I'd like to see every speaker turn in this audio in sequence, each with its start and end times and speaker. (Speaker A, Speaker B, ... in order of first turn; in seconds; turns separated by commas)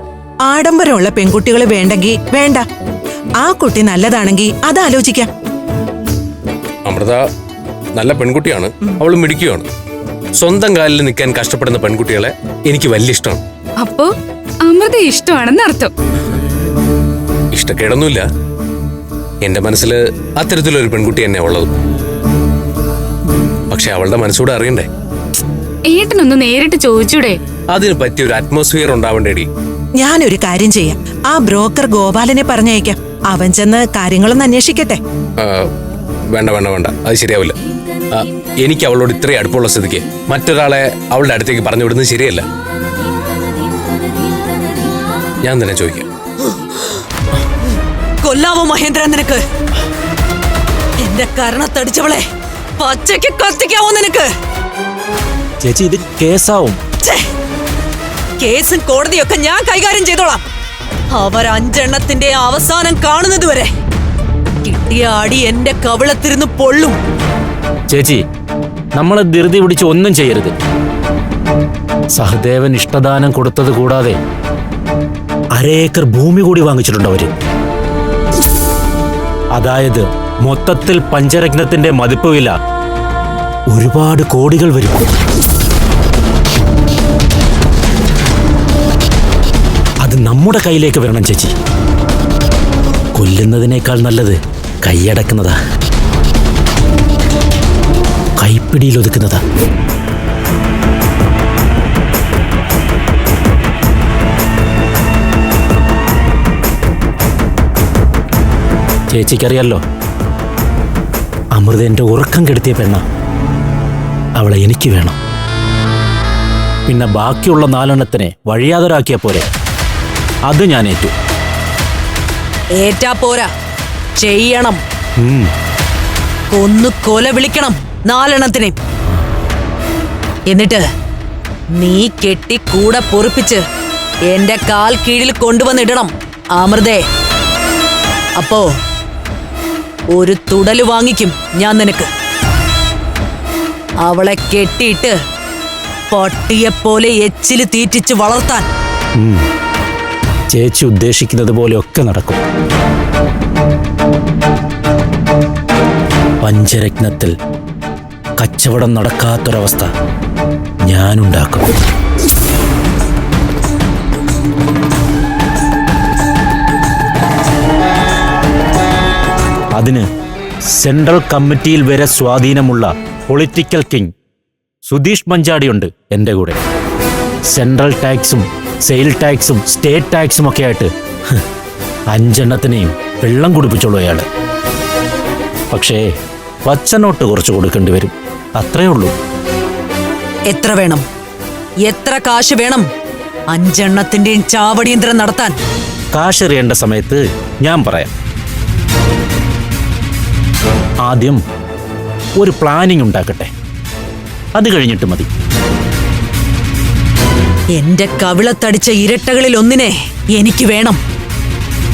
Speaker A: 0.4-2.6, Speaker A: 3.4-5.3, Speaker B: 6.8-7.2, Speaker B: 7.9-9.7, Speaker B: 10.4-13.4, Speaker C: 13.8-14.1, Speaker C: 14.7-15.9, Speaker B: 17.5-18.3, Speaker B: 19.4-21.7, Speaker B: 23.7-24.9, Speaker C: 25.9-27.4, Speaker B: 27.7-29.5, Speaker A: 30.0-35.0, Speaker B: 35.4-35.7, Speaker B: 36.3-37.5, Speaker B: 38.1-42.5, Speaker B: 45.4-46.1, Speaker D: 48.2-49.4, Speaker D: 51.0-52.2, Speaker D: 52.8-54.3, Speaker E: 55.6-56.8, Speaker D: 58.4-60.4, Speaker D: 61.1-63.7, Speaker D: 64.6-67.0, Speaker E: 67.9-68.2, Speaker E: 69.0-70.5, Speaker E: 72.2-74.2, Speaker E: 75.5-77.3, Speaker E: 79.5-82.5, Speaker E: 83.7-85.0, Speaker E: 90.0-91.5, Speaker E: 93.2-95.5, Speaker E: 98.4-99.4, Speaker E: 109.1-109.8, Speaker E: 111.5-113.0, Speaker E: 114.4-115.2, Speaker E: 116.9-119.4, Speaker E: 120.5-121.1, Speaker D: 122.8-123.5, Speaker D: 124.2-124.8, Speaker E: 125.2-125.5, Speaker D: 126.5-128.7, Speaker D: 130.5-130.8, Speaker D: 131.8-133.6, Speaker D: 134.3-137.0, Speaker D: 138.4-138.6, Speaker D: 140.1-142.1, Speaker D: 144.0-145.2, Speaker D: 146.1-148.7, Speaker E: 149.2-149.4, Speaker E: 150.5-152.4, Speaker E: 156.4-157.3, Speaker E: 158.4-159.9, Speaker E: 160.9-161.7, Speaker E: 169.8-170.0, Speaker E: 170.8-174.1, Speaker E: 174.8-176.6, Speaker E: 177.5-181.4, Speaker E: 182.1-184.2, Speaker E: 185.7-186.0, Speaker E: 186.6-189.1, Speaker D: 190.5-191.0, Speaker D: 191.8-192.8, Speaker D: 193.5-195.5, Speaker E: 196.1-198.1, Speaker E: 201.0-201.4, Speaker E: 202.4-203.5, Speaker E: 204.6-205.3, Speaker D: 207.8-211.0